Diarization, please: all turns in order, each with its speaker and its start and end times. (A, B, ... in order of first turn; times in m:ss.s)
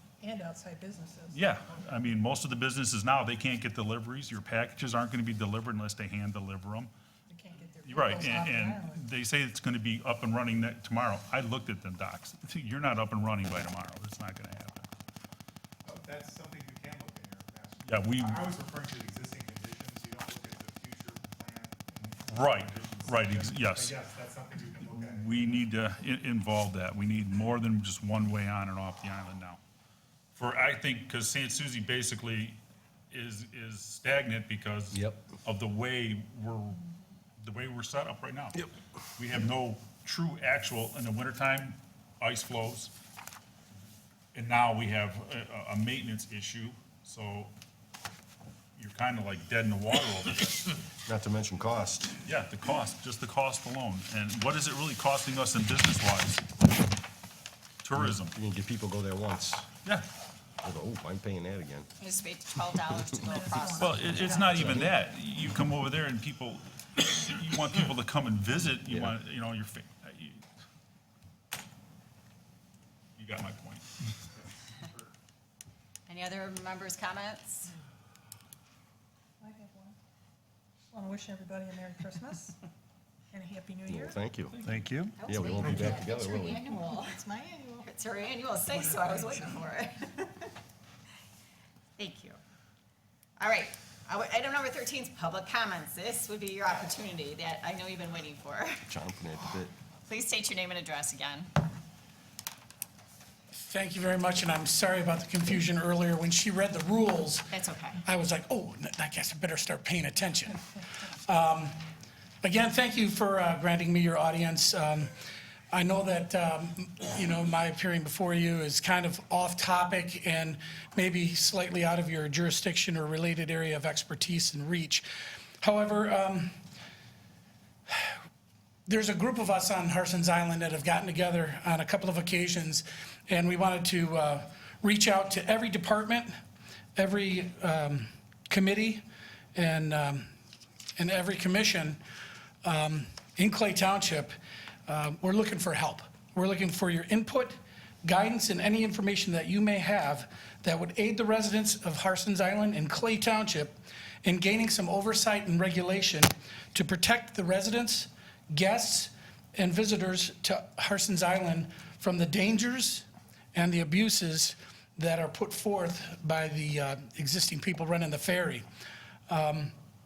0:00.2-0:01.5 A
0:01.3-0:06.9 B
0:07.3-0:09.0 A
0:07.8-0:14.9 B
0:15.8-0:25.5 C
0:17.8-0:18.5 B
0:22.3-0:24.0 B
0:24.8-0:29.6 B
0:30.3-0:32.6 B
0:33.1-0:36.8 B
0:34.9-0:35.2 D
0:37.4-0:42.9 B
0:44.3-0:47.5 B
0:48.8-0:50.7 B
0:51.1-0:52.2 D
0:52.2-0:56.5 B
0:57.8-0:58.3 B
0:58.0-0:59.7 D
1:00.6-1:01.9 D
1:02.0-1:04.1 E
1:03.2-1:04.7 A
1:03.8-1:10.4 B
1:04.2-1:04.9 D
1:08.8-1:09.2 D
1:13.2-1:13.9 B
1:16.1-1:17.7 E
1:19.4-1:20.0 A
1:20.9-1:22.6 A
1:23.3-1:24.2 A
1:23.9-1:24.6 D
1:24.6-1:25.1 B
1:25.2-1:27.2 E
1:25.2-1:26.6 D
1:25.8-1:27.9 A
1:27.8-1:30.5 E
1:28.7-1:29.6 A
1:32.0-1:32.4 E
1:33.4-1:38.8 E
1:38.9-1:39.7 D
1:40.1-1:41.5 E
1:43.6-1:47.5 F
1:47.5-1:48.0 E
1:48.0-1:51.8 F
1:52.4-1:55.1 F
1:55.7-2:05.1 F
2:05.6-2:06.6 F
2:08.9-2:16.3 F
2:17.0-2:19.0 F
2:19.6-2:20.3 F
2:21.0-2:22.0 F
2:22.6-2:24.4 F
2:24.9-2:48.6 F
2:49.3-2:49.8 F